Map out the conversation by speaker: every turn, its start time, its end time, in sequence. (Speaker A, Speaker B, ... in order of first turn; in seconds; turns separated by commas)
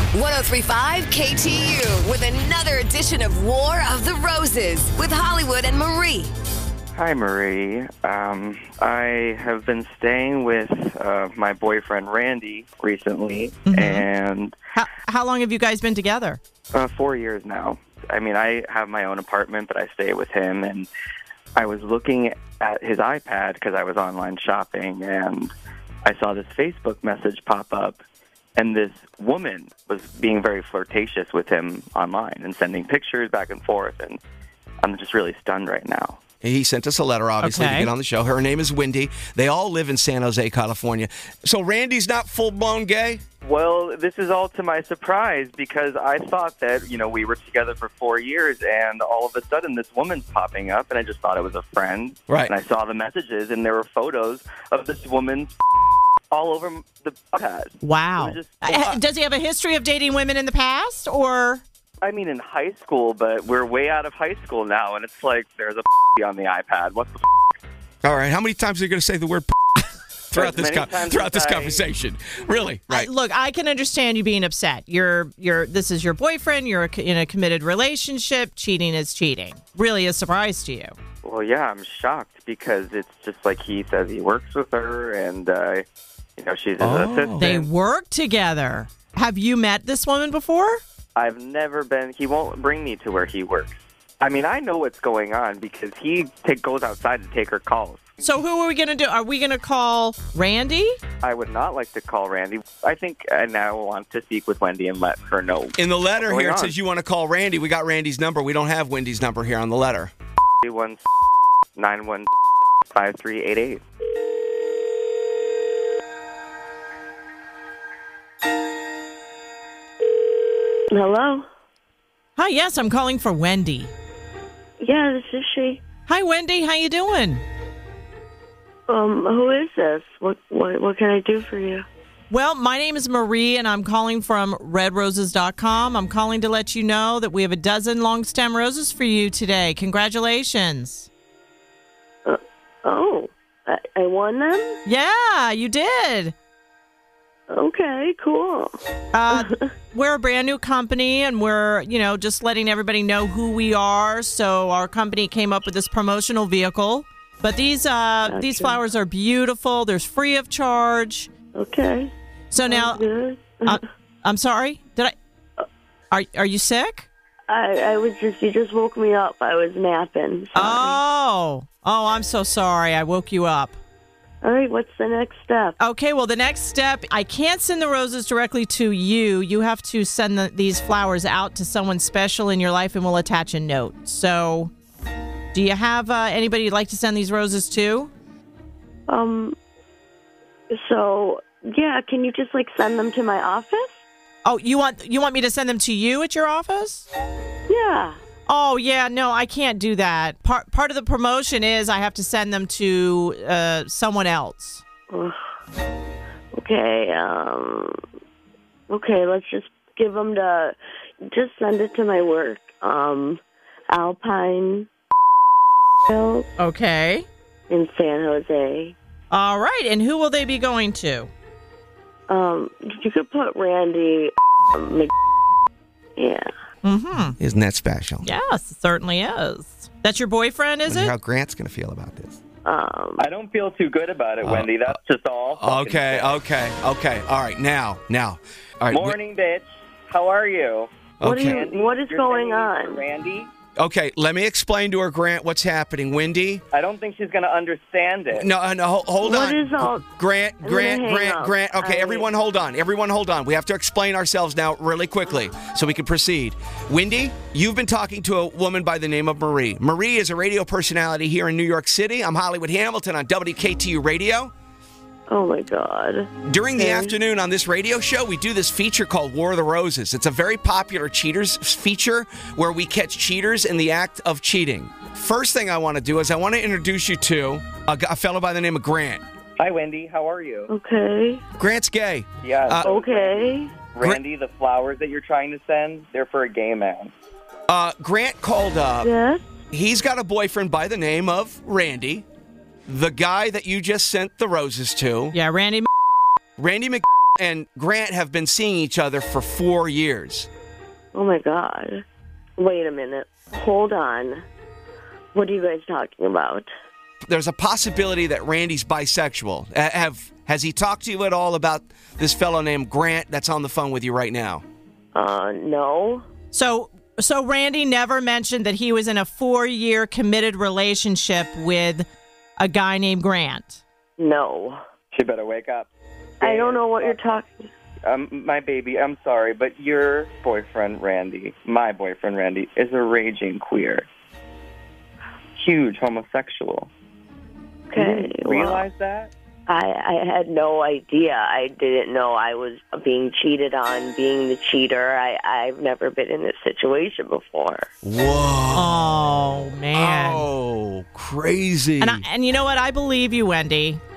Speaker A: 0.1-6.3, Speaker B: 6.9-14.6, Speaker C: 13.7-14.1, Speaker C: 14.8-16.4, Speaker B: 16.7-20.9, Speaker B: 21.6-25.5, Speaker B: 26.0-28.0, Speaker B: 28.6-34.2, Speaker B: 34.8-36.2, Speaker D: 36.4-43.2, Speaker C: 37.4-37.9, Speaker B: 43.4-55.5, Speaker B: 56.3-59.0, Speaker C: 57.8-61.6, Speaker B: 62.0-67.3, Speaker D: 68.0-73.1, Speaker B: 70.3-71.8, Speaker C: 72.9-80.9, Speaker B: 81.2-85.8, Speaker B: 86.4-87.7, Speaker D: 86.8-87.5, Speaker C: 87.4-90.8, Speaker B: 91.2-98.0, Speaker C: 98.2-101.0, Speaker B: 101.2-106.7, Speaker D: 105.8-110.1, Speaker B: 110.6-111.0, Speaker B: 111.8-112.3, Speaker B: 112.9-113.8, Speaker E: 120.9-121.4, Speaker C: 122.3-123.9, Speaker E: 124.8-125.8, Speaker C: 126.1-127.4, Speaker E: 128.9-131.8, Speaker C: 132.3-141.1, Speaker E: 142.2-144.8, Speaker C: 144.8-146.3, Speaker E: 147.5-148.7, Speaker C: 149.1-161.3, Speaker E: 149.3-149.6, Speaker E: 158.2-158.8, Speaker E: 161.5-162.1, Speaker C: 162.5-163.0, Speaker E: 162.7-163.8, Speaker C: 163.7-165.1, Speaker C: 166.1-167.1, Speaker E: 167.5-171.0, Speaker C: 170.5-173.8, Speaker E: 174.4-175.8, Speaker C: 175.8-184.7, Speaker C: 185.5-188.1, Speaker E: 189.1-189.6, Speaker E: 190.7-193.9, Speaker C: 194.4-197.1, Speaker E: 197.7-198.2, Speaker C: 198.5-204.8, Speaker E: 205.1-205.3, Speaker E: 206.5-208.0, Speaker E: 208.9-210.8, Speaker E: 211.3-214.9, Speaker E: 216.1-216.5, Speaker C: 216.6-217.2, Speaker E: 217.7-218.9, Speaker C: 219.3-221.3, Speaker E: 222.3-225.1, Speaker E: 226.2-226.5, Speaker C: 226.8-227.3, Speaker D: 227.4-228.3, Speaker C: 228.2-231.1, Speaker D: 230.8-232.4, Speaker E: 232.6-233.3, Speaker B: 233.2-236.4, Speaker D: 234.4-234.7, Speaker D: 235.6-239.2, Speaker B: 238.9-243.5, Speaker D: 241.2-241.6, Speaker E: 241.2-243.0, Speaker D: 243.8-246.6, Speaker B: 246.7-248.5, Speaker D: 248.3-264.5, Speaker E: 249.2-250.0, Speaker E: 250.6-252.3, Speaker E: 265.3-267.1, Speaker D: 266.4-279.2, Speaker B: 279.6-280.7, Speaker E: 280.7-281.4, Speaker D: 281.6-282.9, Speaker B: 282.4-287.1, Speaker E: 282.8-283.8, Speaker D: 287.7-289.1, Speaker E: 289.0-289.4, Speaker D: 289.7-292.2, Speaker D: 292.9-295.4, Speaker C: 295.3-295.9, Speaker D: 296.6-300.5, Speaker E: 301.1-302.0, Speaker E: 302.6-304.4, Speaker E: 305.3-306.7, Speaker D: 307.3-314.6, Speaker E: 315.1-316.2, Speaker C: 316.5-322.1, Speaker C: 322.6-323.8, Speaker E: 324.2-324.8, Speaker B: 325.1-325.9, Speaker E: 326.4-327.7, Speaker B: 326.4-327.2, Speaker B: 328.0-334.1, Speaker B: 335.6-336.9, Speaker E: 337.9-338.9, Speaker B: 337.9-339.3, Speaker E: 339.7-347.9, Speaker D: 348.0-349.3, Speaker C: 348.7-350.5, Speaker D: 349.9-352.2, Speaker C: 352.0-354.0